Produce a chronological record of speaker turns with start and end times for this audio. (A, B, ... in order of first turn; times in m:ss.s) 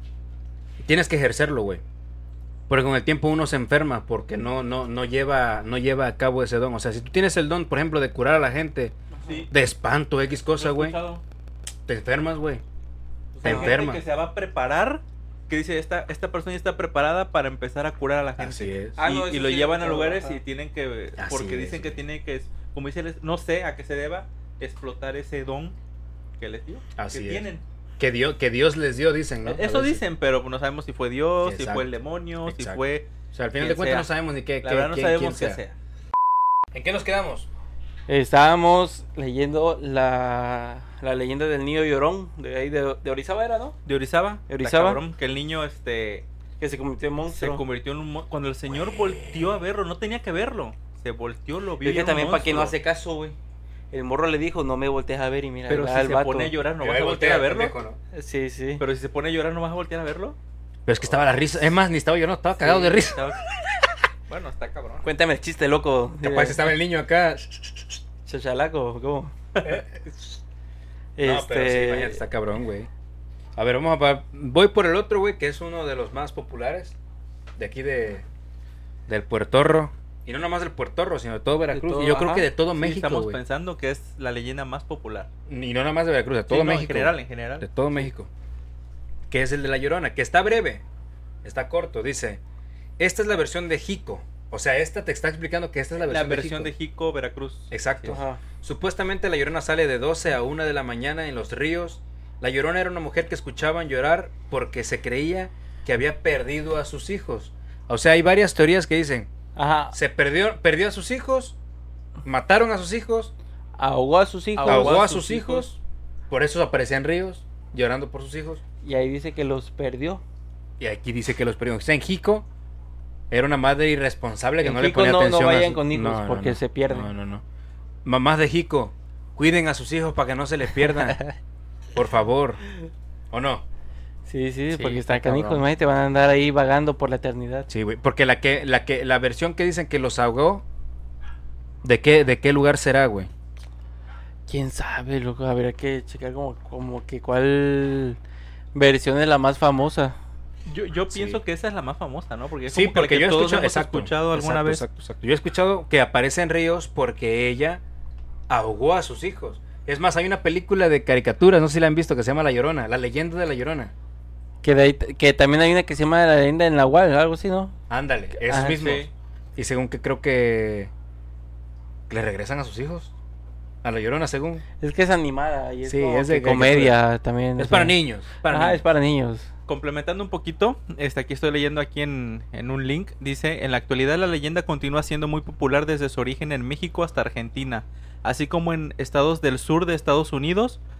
0:00.8-0:01.8 A
0:02.7-0:08.9 A
0:09.1-0:09.4 B
0:09.5-0:11.0 A
0:10.6-0:11.2 C
0:11.9-0:12.6 A
0:13.3-0:13.8 B
0:13.4-0:14.0 A
0:13.4-0:25.8 C
0:18.4-0:19.0 A
0:19.0-0:20.4 B
0:21.2-0:22.0 A
0:26.4-0:27.6 C
0:27.0-0:27.5 A
0:28.0-0:30.0 A
0:29.4-0:34.1 C
0:31.4-0:31.9 A
0:32.4-0:32.8 A
0:33.3-0:35.6 A
0:34.6-0:35.7 C
0:36.7-0:37.5 A
0:38.1-0:43.8 B
0:43.8-0:46.3 C
0:44.5-0:45.0 B
0:46.6-0:47.6 B
0:47.3-0:52.7 C
0:51.8-0:53.3 B
0:53.9-0:56.5 B
0:55.7-0:57.7 C
0:56.8-0:58.0 A
0:58.1-0:58.8 B
0:58.8-1:00.4 C
1:00.8-1:03.3 A
1:02.6-1:03.5 C
1:04.3-1:05.1 C
1:05.0-1:06.6 B
1:06.2-1:08.0 A
1:08.2-1:09.3 B
1:09.6-1:10.0 A
1:11.2-1:12.2 B
1:11.2-1:12.9 A
1:13.6-1:17.0 A
1:17.6-1:18.2 A
1:19.1-1:23.4 A
1:21.7-1:22.5 B
1:22.7-1:25.3 C
1:25.5-1:28.3 A
1:26.5-1:27.6 C
1:29.3-1:30.8 A
1:31.4-1:32.4 A
1:33.0-1:36.7 A
1:36.0-1:38.2 C
1:37.7-1:49.3 A
1:38.1-1:38.4 B
1:49.6-1:50.0 B
1:49.9-1:51.6 A
1:52.2-1:53.3 A
1:53.8-1:55.1 B
1:54.6-1:55.6 C
1:54.6-1:58.6 A
1:58.8-2:00.2 B
2:00.8-2:02.4 A
2:03.3-2:07.4 A
2:04.6-2:07.1 B
2:08.0-2:11.2 A
2:11.0-2:11.3 B
2:11.9-2:12.6 A
2:13.3-2:13.6 A
2:14.3-2:17.7 B
2:14.7-2:15.5 C
2:15.2-2:15.6 A
2:17.7-2:20.6 A
2:21.8-2:23.3 A
2:24.5-2:28.2 B
2:28.7-2:30.2 B
2:30.6-2:34.8 C
2:31.1-2:31.4 A
2:32.7-2:37.8 A
2:38.5-2:43.9 A
2:44.6-2:47.8 B
2:47.9-2:50.9 A
2:48.4-2:48.9 B
2:48.7-2:49.1 C
2:52.1-2:53.1 A
2:53.8-2:54.6 A
2:54.8-2:59.5 B
2:55.8-2:57.0 A
2:57.6-2:58.8 A
2:59.7-3:10.8 C